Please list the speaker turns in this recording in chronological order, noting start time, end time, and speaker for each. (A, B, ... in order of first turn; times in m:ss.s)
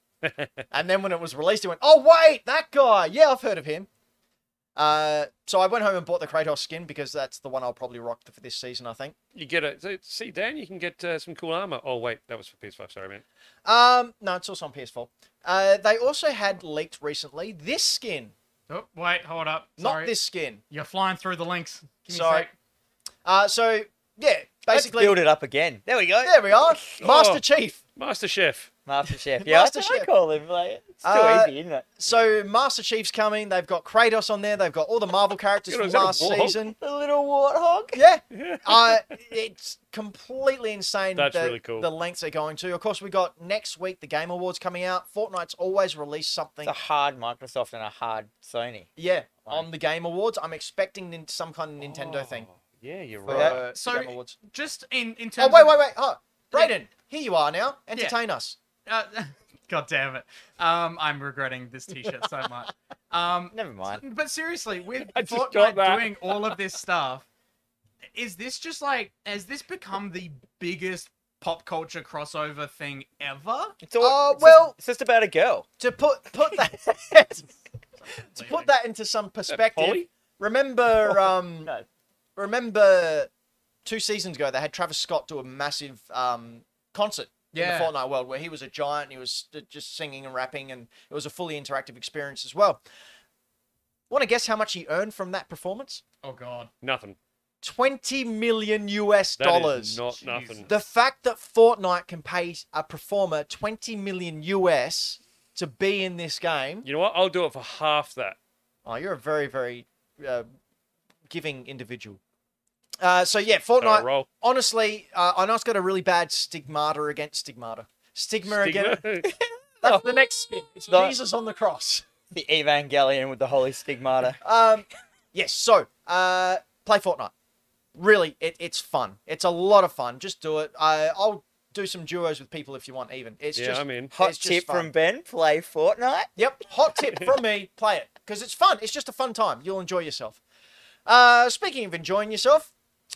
0:00.2-0:00.6 A
0:00.7-0:03.9 B
0:04.8-0:09.2 B
0:09.3-0:13.2 A
0:13.6-0:18.3 B
0:18.7-0:20.1 C
0:19.8-0:20.6 B
0:20.7-0:22.5 C
0:22.1-0:22.5 B
0:23.2-0:25.2 B
0:24.7-0:27.0 D
0:26.2-0:27.8 B
0:27.0-0:27.4 A
0:28.0-0:28.7 A
0:28.9-0:31.9 D
0:29.4-0:30.1 B
0:31.0-0:36.8 B
0:35.7-0:36.6 A
0:36.8-0:38.0 D
0:37.9-0:46.7 B
0:38.3-0:39.0 A
0:41.2-0:41.9 A
0:46.6-0:48.9 D
0:49.0-0:52.5 B
0:51.8-0:53.6 A
0:53.2-0:54.4 B
0:53.3-0:53.6 D
0:53.7-0:55.8 C
0:55.4-0:58.6 B
0:58.9-1:07.3 C
1:03.5-1:04.0 D
1:05.1-1:06.5 A
1:08.2-1:13.8 C
1:13.8-1:15.7 D
1:14.0-1:14.8 B
1:15.8-1:17.5 B
1:18.4-1:21.7 B
1:18.4-1:18.6 C
1:19.5-1:20.1 A
1:22.4-1:23.3 B
1:23.8-1:32.8 B
1:27.5-1:27.9 C
1:34.1-1:36.0 B
1:36.2-1:36.7 C
1:36.8-1:37.2 A
1:37.6-1:40.0 B
1:39.4-1:40.7 A
1:40.2-1:40.7 C
1:40.7-1:46.9 B
1:46.8-1:48.4 A
1:48.8-1:50.5 B
1:51.3-1:52.2 B
1:53.0-1:59.3 B
1:53.6-1:54.3 A
1:58.5-1:59.3 A
1:59.8-2:02.1 B
1:59.8-2:00.1 A
2:00.9-2:01.2 D
2:02.3-2:04.4 D
2:04.4-2:07.3 B
2:08.0-2:14.9 B
2:13.6-2:14.1 A
2:14.1-2:16.3 D
2:16.4-2:20.4 B
2:21.1-2:22.7 B